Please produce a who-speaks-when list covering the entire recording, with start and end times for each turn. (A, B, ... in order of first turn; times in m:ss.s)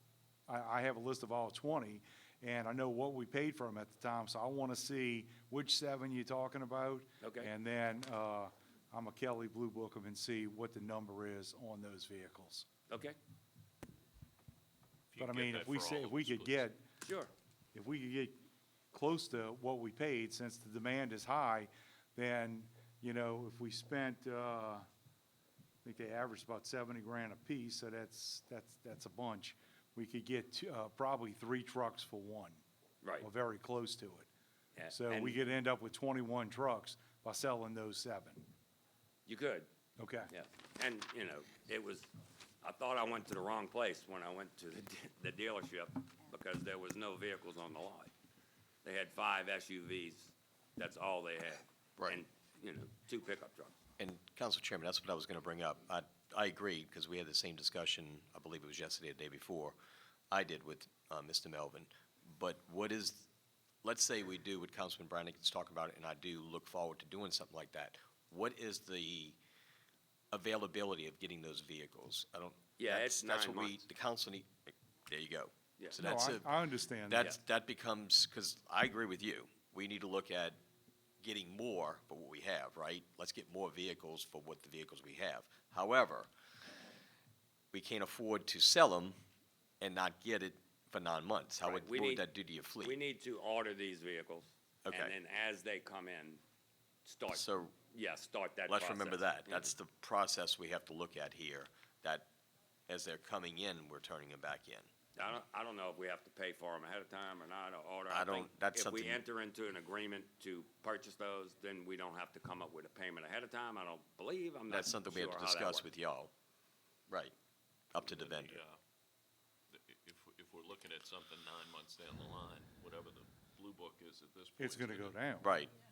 0:00.5-0:12.7 A
0:07.2-0:07.5 B
0:12.9-0:13.2 B
0:15.1-0:16.7 C
0:15.2-0:16.8 A
0:17.0-0:17.3 B
0:17.7-0:18.4 A
0:18.9-0:24.9 A
0:25.8-0:32.6 A
0:33.2-0:34.3 A
0:34.8-0:35.4 B
0:34.9-0:38.5 A
0:39.3-0:39.7 B
0:40.0-0:40.3 A
0:40.3-0:42.1 B
0:42.6-0:48.1 B
0:48.8-0:53.7 B
0:54.0-0:59.8 D
1:00.3-1:03.3 D
1:03.8-1:09.4 D
1:10.3-1:16.5 D
1:12.8-1:13.8 B
1:16.0-1:17.3 A
1:17.1-1:20.6 D
1:21.2-1:26.3 D
1:27.7-1:29.2 D
1:29.8-1:33.0 D
1:31.6-1:32.2 B
1:32.8-1:36.4 B
1:34.8-1:35.2 D
1:37.1-1:39.8 B
1:37.3-1:37.8 D
1:38.7-1:42.3 D
1:42.9-1:44.9 D
1:45.2-1:55.9 B
1:48.1-1:49.2 D
1:54.7-1:56.3 D
1:57.1-1:57.3 D
1:57.9-1:58.6 D
1:58.0-1:58.8 C
1:59.7-2:05.3 C
2:04.6-2:05.6 A
2:05.4-2:05.7 D